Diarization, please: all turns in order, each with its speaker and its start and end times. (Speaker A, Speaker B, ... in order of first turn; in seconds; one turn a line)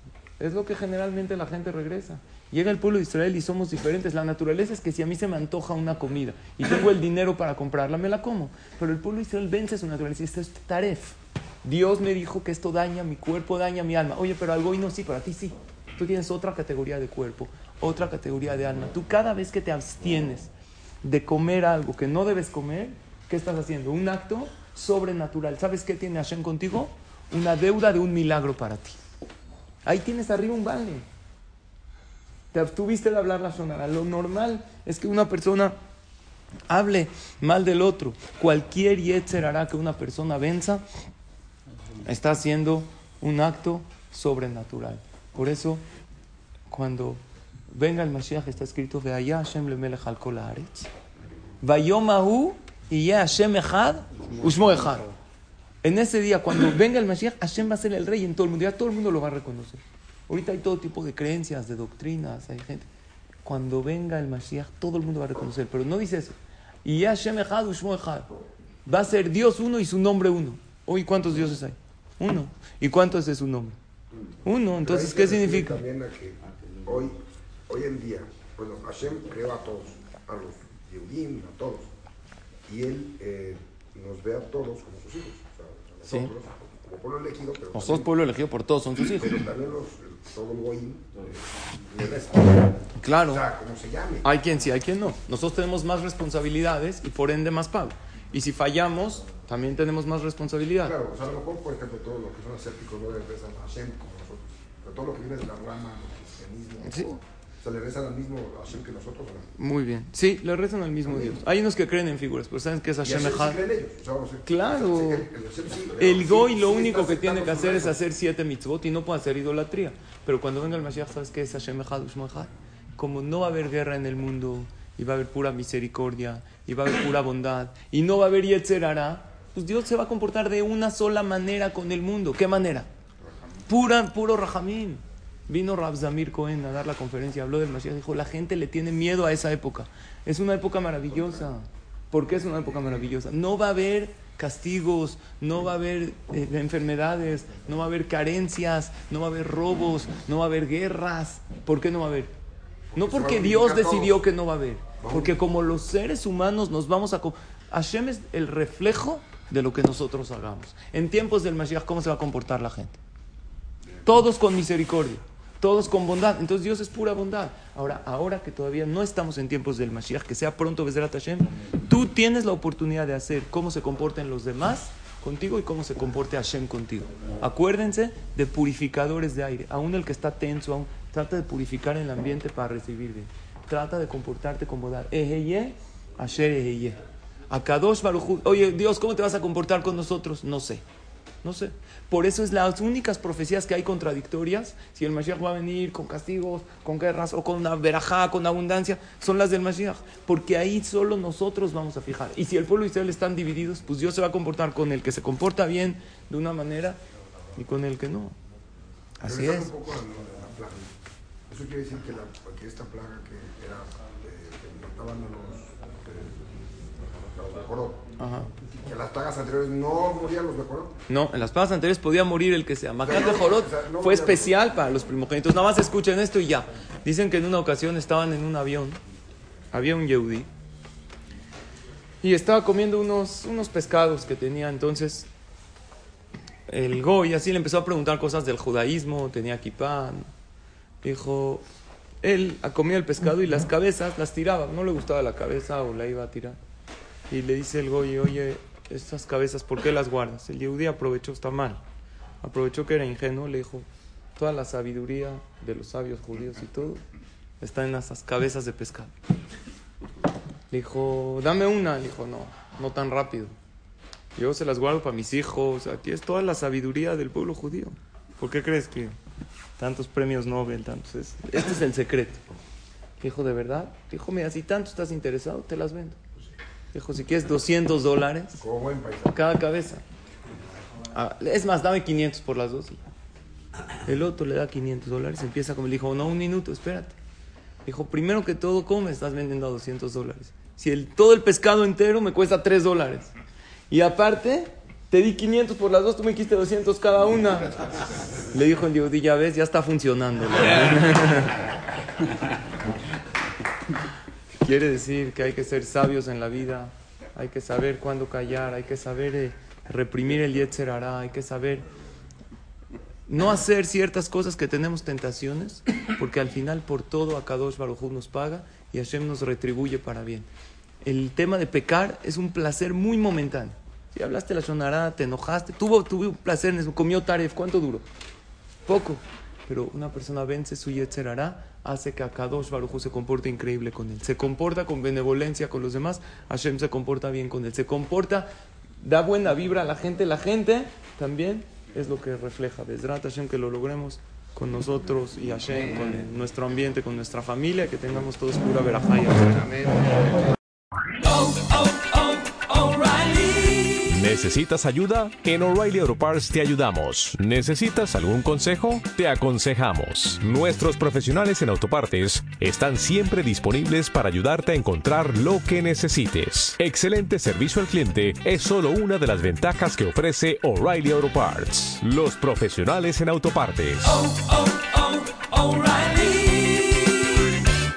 Speaker A: 0.4-20.5
Speaker A: 21.0-29.0
Speaker A: 29.9-31.1
Speaker A: 32.5-35.8
Speaker A: 36.7-40.9
Speaker A: 42.0-45.8
Speaker A: 46.7-50.9
Speaker A: 51.6-55.1
Speaker A: 55.8-62.9
Speaker A: 63.4-68.3
Speaker A: 68.9-73.8
Speaker A: 74.5-75.8
Speaker B: 74.8-81.9
Speaker B: 82.7-88.2
Speaker A: 86.1-86.3
Speaker A: 87.7-89.4
Speaker B: 89.0-94.3
Speaker A: 93.0-93.5
Speaker A: 94.2-101.0
Speaker B: 100.8-109.5
Speaker A: 106.8-107.2
Speaker A: 109.6-113.6
Speaker B: 111.0-111.4
Speaker B: 113.0-118.0
Speaker A: 114.5-115.3
Speaker A: 116.0-132.9
Speaker A: 133.7-152.3
Speaker B: 152.9-154.2
Speaker A: 152.9-163.0
Speaker B: 155.0-155.3
Speaker A: 164.0-190.8
Speaker A: 191.4-207.0
Speaker A: 207.6-208.3
Speaker A: 209.2-209.7
Speaker B: 209.2-211.0
Speaker B: 211.5-218.1
Speaker A: 218.2-218.5
Speaker B: 218.8-221.0
Speaker A: 221.1-229.0
Speaker B: 223.0-224.6
Speaker A: 229.7-230.5
Speaker A: 232.2-235.3
Speaker A: 236.7-240.3
Speaker A: 241.0-241.7
Speaker A: 242.2-246.6
Speaker A: 247.3-251.8
Speaker A: 252.4-257.0
Speaker A: 257.6-259.1
Speaker A: 260.7-263.5
Speaker A: 264.4-269.2
Speaker A: 269.8-272.4
Speaker A: 273.2-276.2
Speaker A: 276.9-278.6
Speaker B: 278.6-279.4
Speaker A: 279.3-280.0
Speaker A: 281.1-283.1
Speaker A: 284.0-287.2
Speaker A: 287.9-293.3
Speaker A: 293.9-301.7
Speaker A: 304.6-311.9
Speaker A: 313.3-320.5
Speaker A: 321.0-328.1
Speaker A: 328.9-350.2
Speaker C: 351.2-377.6